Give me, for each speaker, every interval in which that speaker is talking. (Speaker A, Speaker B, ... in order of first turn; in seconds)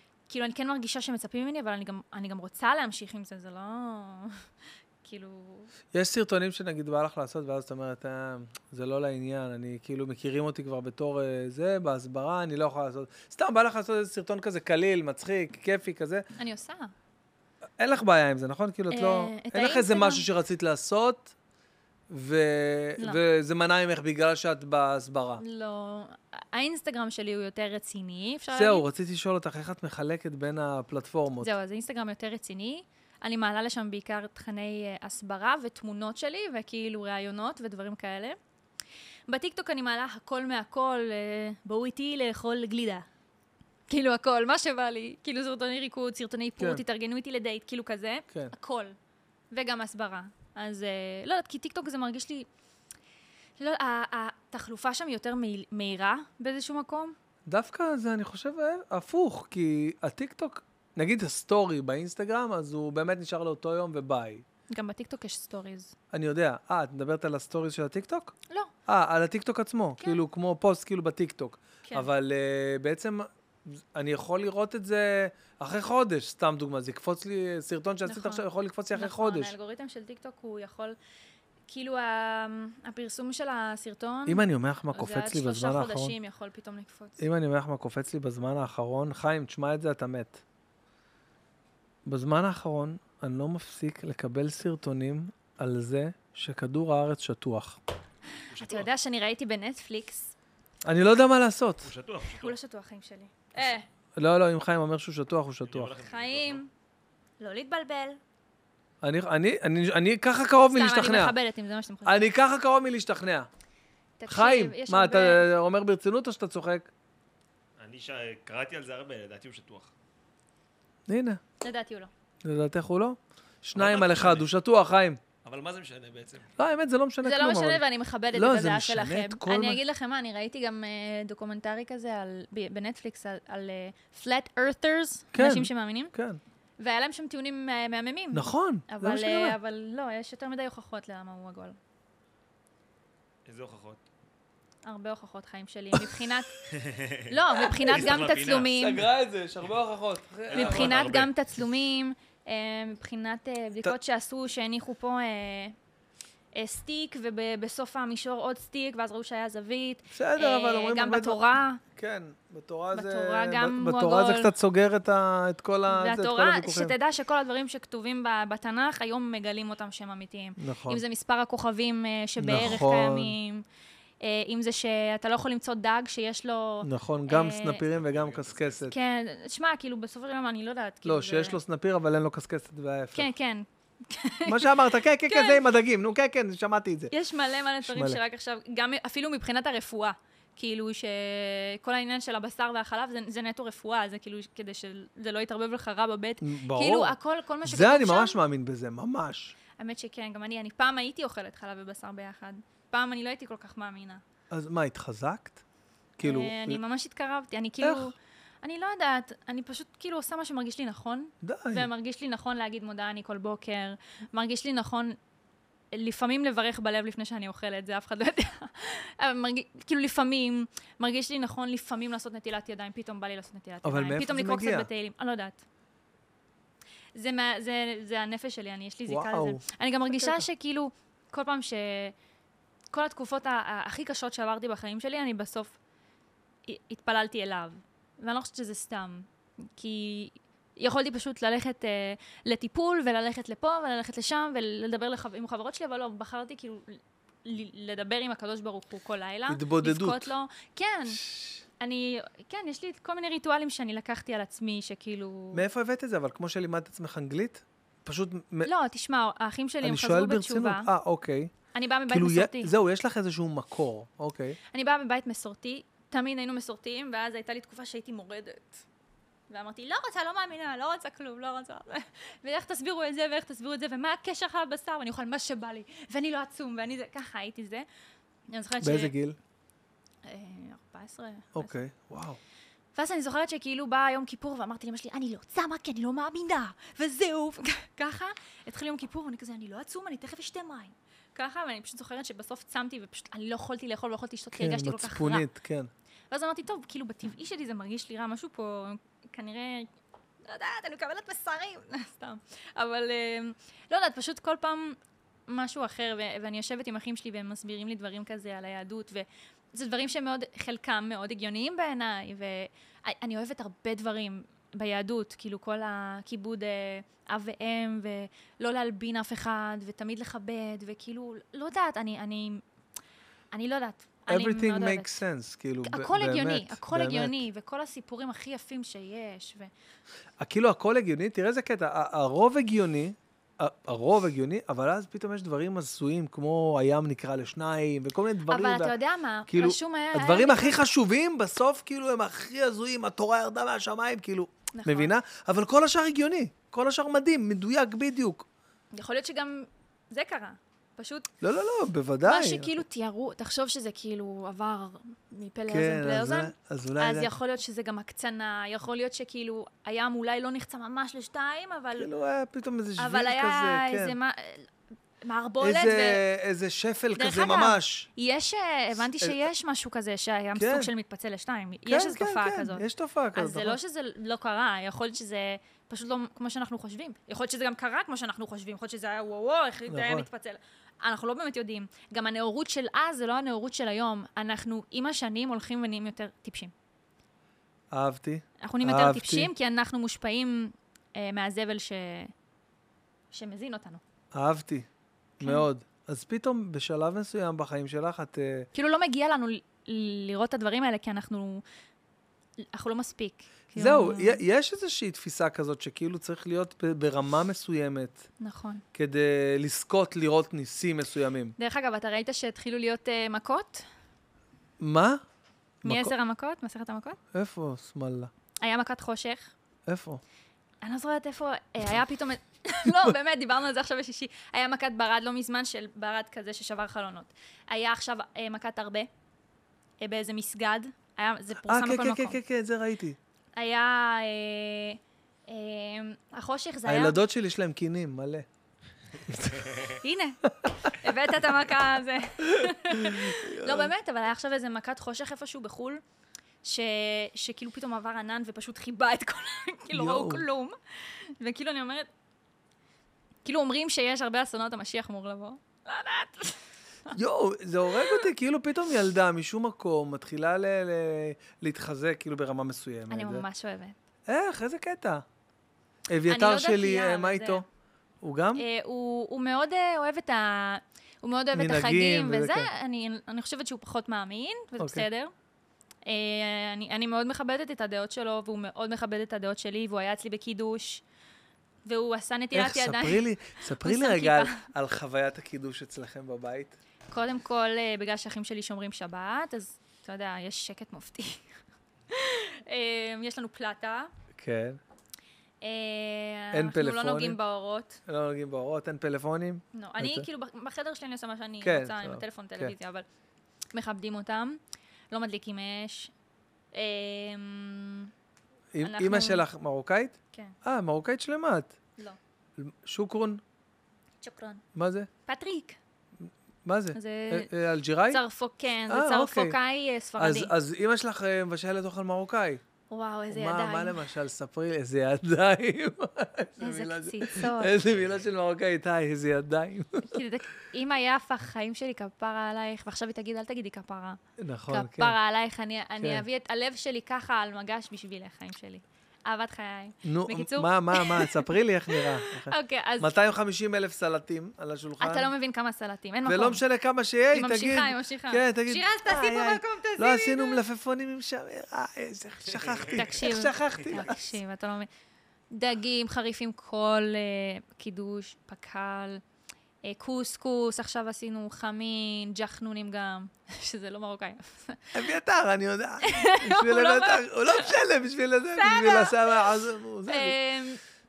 Speaker A: 0.3-4.4, 5.0-5.7, 16.4-16.9, 18.9-20.3, 25.4-28.9, 31.4-38.4, 39.3-43.1, 43.9-49.0, 49.5-52.5, 53.6-57.1, 64.7-66.0, 78.1-81.0, 81.7-87.2, 98.5-100.3, 102.3-103.9, 106.0-106.7, 107.4-108.2, 110.7-112.3, 114.2-115.5, 121.6-122.1, 127.2-136.1, 136.8-141.8, 144.8-146.6, 147.3-149.0, 150.5-155.8, 156.6-161.8, 162.9-164.5, 165.9-173.6, 174.2-177.8, 178.9-181.6, 183.2-185.6, 187.1-198.4, 199.8-204.2, 206.2-215.2, 215.9-225.6, 227.2-232.2, 232.9-235.8, 236.7-251.2, 251.8-255.6, 258.6-260.9, 261.7-262.7, 264.7-268.8, 269.5-277.9, 278.5-279.1, 280.2-281.7, 282.9-295.5, 296.3-299.9, 300.4-322.6, 323.5-325.2, 325.8-329.7, 338.5-340.8, 344.7-345.1, 348.9-351.3, 352.2-362.1, 363.0-364.7, 365.2-366.2, 367.2-386.7, 388.6-392.3, 393.3-394.0, 395.4-395.7, 398.7-401.6, 402.7-404.4, 408.4-408.8, 411.6-413.9, 415.9-417.2, 418.6-419.5, 420.8-429.1, 430.0-432.4, 433.6-437.2, 439.9-446.0, 446.6-452.1, 453.4-457.1, 457.9-458.2, 463.1-464.0, 466.3-467.6, 468.6-475.3, 476.1-481.0, 481.9-483.2, 483.8-484.6, 487.1-491.5, 492.1-494.1, 495.6-498.0, 499.7-503.1, 503.7-504.6, 505.1-506.1, 506.7-508.1, 508.8-509.4, 514.2-514.6, 515.3-515.8, 516.9-517.5, 518.1-520.5, 522.9-524.1, 526.6-527.8, 530.0-543.1, 545.0-546.6, 547.3-550.6, 552.9-554.9, 555.5-559.2, 559.8-565.0, 566.0-567.8, 568.5-569.5, 570.1-570.8
Speaker B: 5.9-16.3, 17.8-21.3, 22.1-25.4, 28.5-31.5, 57.5-64.5, 66.1-68.3, 68.9-79.5, 84.3-86.2, 87.2-90.4, 92.1-97.8, 100.8-101.9, 104.2-106.0, 109.0-111.4, 112.0-113.5, 114.3-116.9, 121.1-121.4, 122.4-125.2, 126.6-129.8, 135.3-136.4, 138.3-139.6, 145.9-146.3, 147.8-151.2, 160.1-166.9, 170.6-171.0, 172.4-173.4, 176.8-178.9, 181.1-183.3, 184.5-187.1, 187.8-188.2, 196.4-199.6, 204.5-205.6, 206.2-206.8, 207.8-208.1, 211.4-211.9, 223.8-224.9, 229.1-230.4, 249.5-250.3, 251.2-251.6, 255.5-258.7, 259.8-261.5, 262.1-264.6, 278.8-279.4, 281.5-282.4, 294.5-295.9, 324.3-327.4, 330.4-348.5, 351.4-352.8, 355.7-357.3, 362.0-364.2, 365.6-368.1, 370.6-370.9, 371.9-373.8, 379.9-380.3, 387.9-389.5, 394.3-394.9, 395.4-398.7, 403.8-408.2, 408.9-411.6, 414.8-415.2, 415.8-416.1, 417.3-418.3, 419.9-420.2, 431.6-433.2, 436.9-438.5, 439.2-439.9, 440.5-441.0, 442.4-443.9, 449.9-450.4, 457.1-463.4, 464.3-465.2, 466.1-467.6, 468.2-468.6, 471.5-472.7, 474.8-475.1, 482.5-486.8, 494.3-494.8, 496.5-497.4, 498.1-500.3, 501.6-502.8, 508.7-511.8, 512.6-513.4, 514.8-515.1, 516.2-518.2, 518.9-519.6, 520.2-522.6, 523.3-530.2, 534.4-535.2, 540.0-545.3, 546.3-554.4, 564.9-570.4
Speaker C: 98.5-98.9, 101.8-102.6, 105.7-106.6, 117.8-119.9, 123.8-124.5, 125.4-126.5, 143.5-144.0, 146.7-148.9, 150.5-151.3, 177.9-178.9